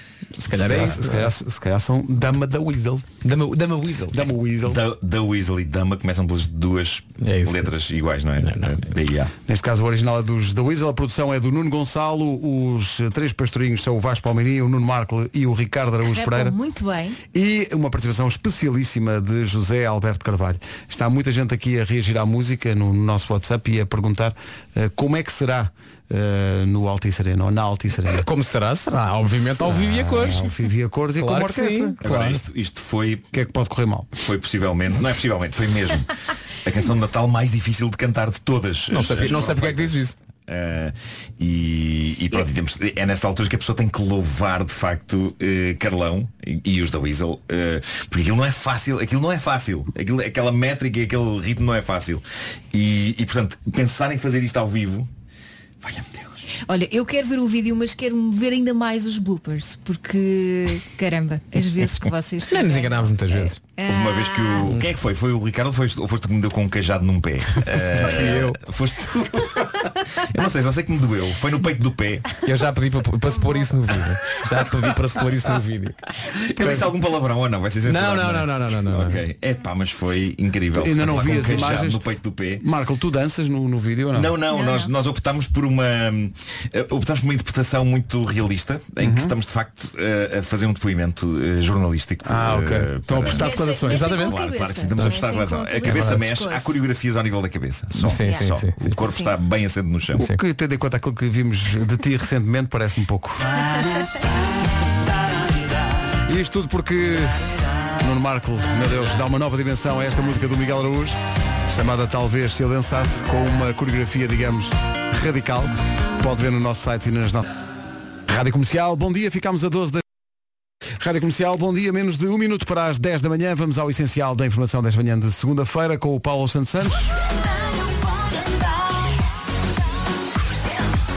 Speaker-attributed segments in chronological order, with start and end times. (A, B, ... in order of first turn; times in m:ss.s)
0:00.4-0:01.3 A
0:00.6-0:03.1 B
0:03.2-0:04.2 A
0:04.1-0:04.8 B
0:04.6-0:09.3 C
0:07.2-0:07.7 A
0:08.4-0:09.0 A
0:09.5-0:16.6 B
0:16.1-0:17.2 D
0:17.3-0:28.3 B
0:28.2-0:30.4 A
0:29.4-0:32.0 B
0:31.2-0:32.4 A
0:32.0-0:33.2 C
0:33.3-0:34.2 B
0:34.2-0:36.1 C
0:36.6-0:55.1 C
0:38.9-0:40.2 A
0:38.9-0:39.6 D
0:55.8-0:56.4 C
0:56.7-1:04.8 D
1:02.5-1:03.6 A
1:03.9-1:12.4 C
1:04.6-1:04.9 A
1:08.0-1:08.6 A
1:08.0-1:08.5 D
1:12.4-1:16.0 A
1:13.3-1:13.7 D
1:16.3-1:22.6 C
1:16.6-1:16.9 B
1:17.9-1:19.2 A
1:20.7-1:22.0 B
1:21.3-1:21.6 D
1:22.6-1:24.3 B
1:24.1-1:40.2 C
1:24.5-1:24.9 D
1:29.0-1:29.4 B
1:32.2-1:34.2 B
1:33.3-1:36.8 D
1:34.0-1:34.4 A
1:34.9-1:35.3 A
1:35.9-1:36.2 A
1:37.9-1:39.0 A
1:38.2-1:39.3 D
1:40.2-1:43.4 B
1:46.3-1:47.4 B
1:48.0-1:51.2 B
1:51.7-1:57.5 B
1:58.3-2:00.0 B
2:01.0-2:07.1 B